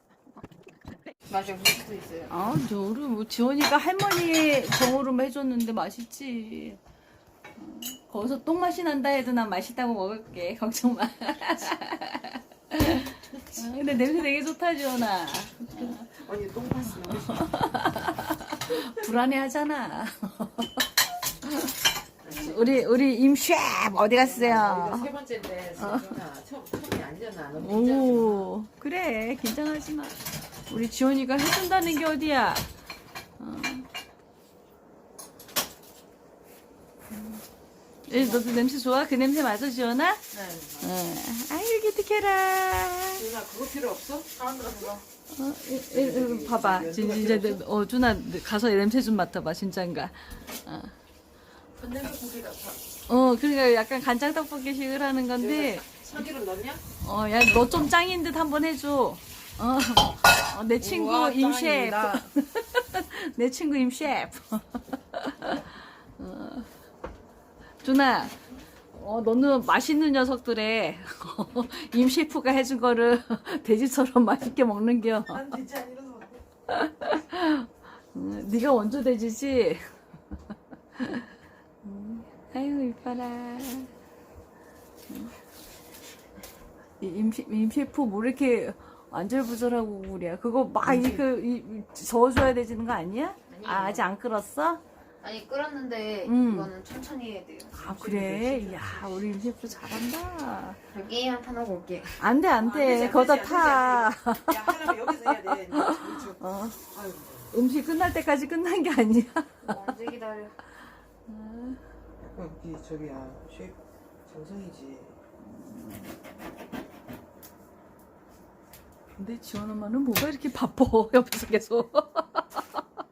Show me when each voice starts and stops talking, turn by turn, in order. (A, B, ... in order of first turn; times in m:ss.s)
0:01.3-0:02.4 A
0:02.3-0:06.8 B
0:07.6-0:16.0 B
0:15.7-0:17.5 C
0:17.2-0:20.8 B
0:22.2-0:22.9 C
0:22.3-0:25.1 B
0:24.1-0:28.5 C
0:25.8-0:26.2 B
0:27.6-0:32.7 B
0:33.4-0:33.9 B
0:37.1-0:37.4 B
0:38.1-0:40.2 B
0:38.1-0:38.5 C
0:40.3-0:40.9 C
0:40.8-0:43.3 B
0:43.2-0:45.0 C
0:44.5-0:45.0 A
0:45.3-0:50.9 B
0:45.9-0:47.6 C
0:51.8-0:52.8 C
0:53.1-0:56.0 B
0:55.4-0:56.8 C
0:57.0-1:06.7 B
1:00.8-1:02.3 C
1:07.8-1:08.4 B
1:08.9-1:15.4 B
1:15.3-1:16.4 C
1:16.7-1:19.9 B
1:21.0-1:21.3 B
1:21.8-1:23.9 B
1:25.1-1:25.3 B
1:27.0-1:34.8 B
1:30.8-1:31.2 C
1:33.5-1:34.1 A
1:35.2-1:37.8 A
1:36.2-1:36.7 B
1:37.7-1:40.8 B
1:37.8-1:39.0 C
1:40.9-1:42.2 A
1:42.2-1:46.8 B
1:42.6-1:47.5 C
1:47.5-1:49.8 B
1:49.6-1:50.6 A
1:51.3-1:51.8 B
1:52.2-1:55.2 C
1:55.4-1:56.1 B
1:59.2-2:02.8 B